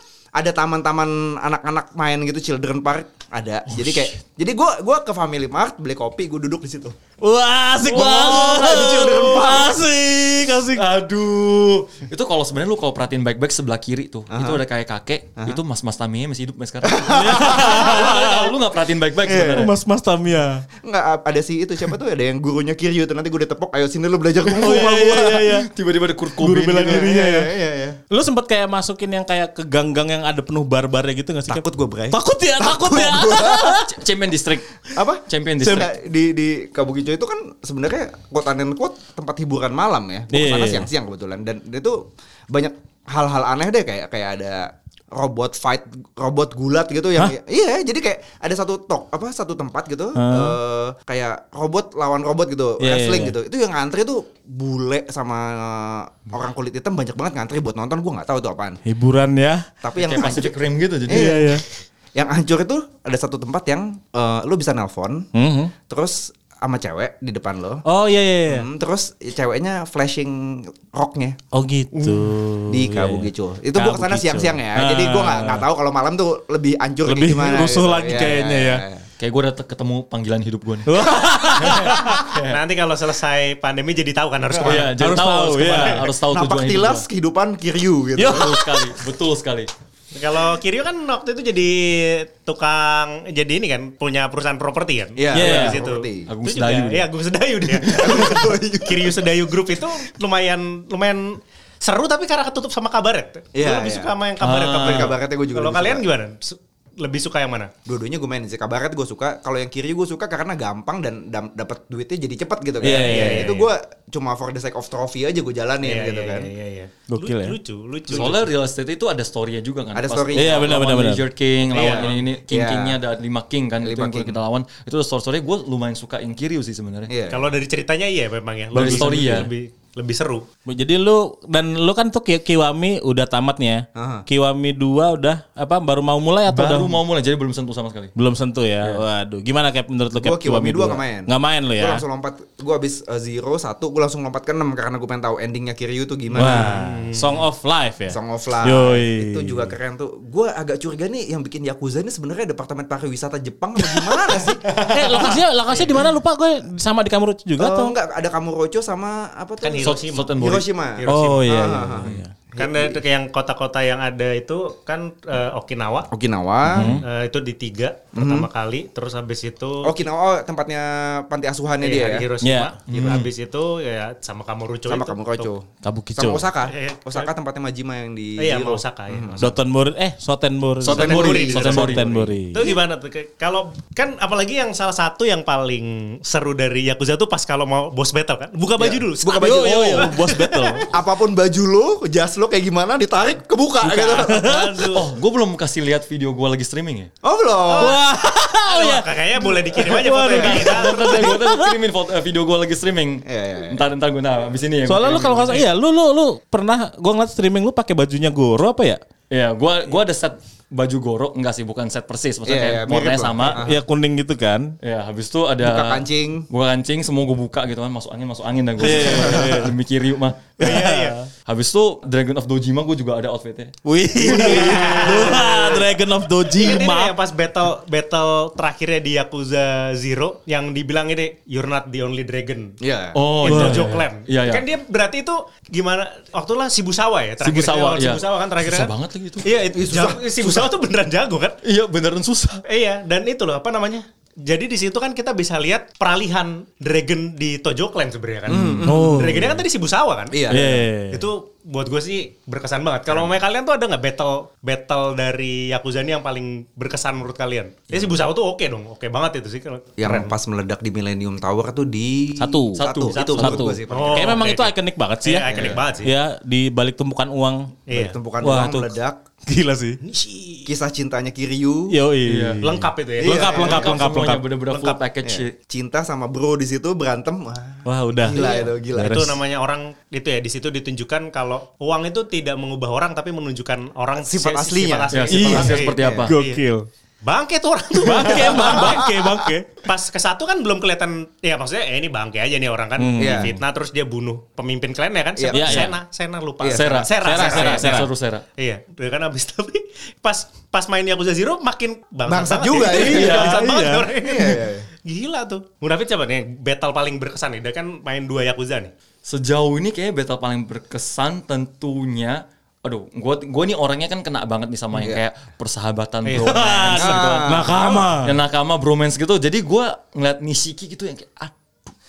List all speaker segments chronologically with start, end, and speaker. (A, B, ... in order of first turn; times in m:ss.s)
0:00.4-0:07.0 A
0:03.7-0:04.2 B
0:07.2-0:10.8 C
0:07.8-0:09.6 B
0:07.9-0:09.8 A
0:10.8-0:19.7 B
0:14.3-0:14.6 A
0:16.8-0:18.4 A
0:17.1-0:18.4 C
0:19.2-0:19.7 A
0:19.6-0:20.6 C
0:20.8-0:25.5 A
0:24.5-0:25.7 C
0:24.6-0:27.1 B
0:26.4-0:27.5 C
0:26.8-0:28.0 A
0:28.1-0:33.9 C
0:31.5-0:33.8 A
0:33.8-0:35.9 B
0:34.9-0:58.8 A
0:35.6-0:35.9 C
0:40.3-0:40.9 C
0:50.2-0:50.6 C
0:52.8-0:53.4 C
0:58.9-0:59.7 C
0:59.8-1:01.6 A
1:00.0-1:01.4 B
1:01.1-1:01.6 C
1:02.2-1:05.3 A
1:05.3-1:05.7 C
1:05.9-1:07.8 A
1:07.9-1:08.7 C
1:08.5-1:11.4 A
1:11.5-1:15.6 C
1:11.9-1:12.2 B
1:12.7-1:19.1 A
1:17.0-1:18.8 C
1:19.2-1:22.6 B
1:20.9-1:22.2 C
1:22.3-1:25.0 D
1:24.6-1:27.0 B
1:24.8-1:26.0 C
1:25.6-1:26.0 D
1:26.3-1:28.6 A
1:28.2-1:28.6 C
1:28.3-1:29.7 B
1:30.1-1:47.7 D
1:35.2-1:36.3 A
1:35.3-1:35.8 C
1:36.3-1:37.1 B
1:37.9-1:39.2 A
1:37.9-1:38.4 B
1:43.5-1:44.1 A
1:44.4-1:45.1 B
1:44.7-1:46.1 A
1:47.9-1:56.5 A
1:52.8-1:53.5 C
1:52.9-1:53.7 D
1:55.8-1:58.5 D
1:57.1-1:57.6 C
1:58.1-2:07.1 B
1:59.9-2:00.8 A
2:00.4-2:01.2 C
2:01.7-2:02.2 D
2:01.8-2:03.0 A
2:03.8-2:04.4 A
2:07.1-2:07.5 A
2:07.3-2:10.5 D
2:08.7-2:09.5 C
2:08.7-2:09.5 B
2:10.7-2:17.0 C
2:14.0-2:14.3 A
2:16.5-2:18.1 B
2:18.2-2:22.0 C
2:20.2-2:26.8 A
2:26.4-2:29.7 C
2:26.4-2:27.4 D
2:28.1-2:34.6 A
2:34.7-2:35.9 D
2:34.9-2:37.9 C
2:37.6-2:43.0 A
2:39.6-2:40.4 D
2:39.8-2:40.6 B
2:41.0-2:41.8 D
2:41.1-2:42.3 C
2:42.6-2:46.1 D
2:46.1-2:47.0 A
2:46.7-2:47.0 C
2:46.8-2:50.0 D
2:48.2-2:48.5 A
2:49.8-2:52.3 A
2:51.8-2:55.5 D
2:52.4-2:52.7 C
2:52.9-2:53.3 B
2:54.9-2:55.7 A
2:55.8-2:56.5 C
2:56.2-2:59.5 A
2:56.6-2:57.3 D
2:58.4-2:59.5 D
2:59.4-3:02.7 C
3:00.8-3:02.1 B
3:00.8-3:02.4 A
3:00.9-3:02.0 D
3:02.5-3:10.9 D
3:08.8-3:10.1 A
3:09.3-3:10.8 C
3:10.9-3:14.5 A
3:14.0-3:15.1 D
3:14.2-3:14.8 C
3:14.9-3:17.1 B
3:17.2-3:18.0 A
3:17.8-3:21.7 C
3:18.7-3:21.3 D
3:20.2-3:25.7 B
3:23.3-3:23.9 A
3:24.9-3:29.0 C
3:29.3-3:33.6 B
3:32.5-3:33.8 A
3:33.6-3:34.8 C
3:34.8-3:40.7 B
3:35.6-3:36.5 A
3:38.8-3:39.7 C
3:38.9-3:39.5 A
3:40.6-3:41.2 D
3:40.6-3:41.3 C
3:41.5-3:45.1 B
3:43.8-3:47.1 C
3:44.3-3:45.8 D
3:46.5-3:52.7 D
3:52.8-3:53.2 A
3:53.2-3:54.6 B
3:53.4-3:58.9 D
3:53.5-3:53.9 C
3:57.4-3:59.5 B
3:59.4-4:01.6 D
3:59.5-4:00.7 A
4:01.6-4:02.6 B
4:02.7-4:10.5 D
4:08.5-4:09.5 A
4:08.9-4:09.6 C
4:10.3-4:10.8 A
4:10.5-4:11.3 C
4:11.1-4:20.4 D
4:20.0-4:24.4 A
4:22.4-4:25.5 C
4:22.8-4:23.6 B
4:23.1-4:24.7 D
4:25.2-4:26.1 D
4:25.5-4:25.8 B
4:26.0-4:27.7 C
4:27.9-4:28.2 D
4:27.9-4:29.2 A
4:28.4-4:29.0 C
4:29.5-4:30.0 C
4:30.0-4:30.7 D
4:30.7-4:32.0 A
4:31.9-4:34.5 C
4:32.2-4:32.6 B
4:32.6-4:34.0 D
4:33.2-4:34.0 A
4:33.6-4:35.5 B
4:34.7-4:35.0 D
4:35.2-4:39.2 A
4:37.9-4:39.4 C
4:38.3-4:46.6 D
4:44.2-4:46.3 A
4:45.1-4:46.3 B
4:45.3-4:46.9 C
4:47.2-4:49.1 D
4:48.0-4:49.7 C
4:48.3-4:49.3 A
4:49.8-4:58.1 D
4:53.0-4:53.6 C
4:53.2-4:53.6 A
4:55.4-4:55.9 A
4:55.5-4:56.0 C
4:56.6-4:57.7 A
4:56.7-4:58.4 B
4:57.2-4:58.1 C
4:58.6-5:08.9 D
5:02.3-5:04.9 A
5:02.9-5:04.1 C
5:03.0-5:03.6 B
5:09.2-5:17.6 B
5:15.0-5:15.2 A
5:16.3-5:17.2 D
5:16.4-5:18.4 C
5:16.9-5:18.1 A
5:18.2-5:21.6 B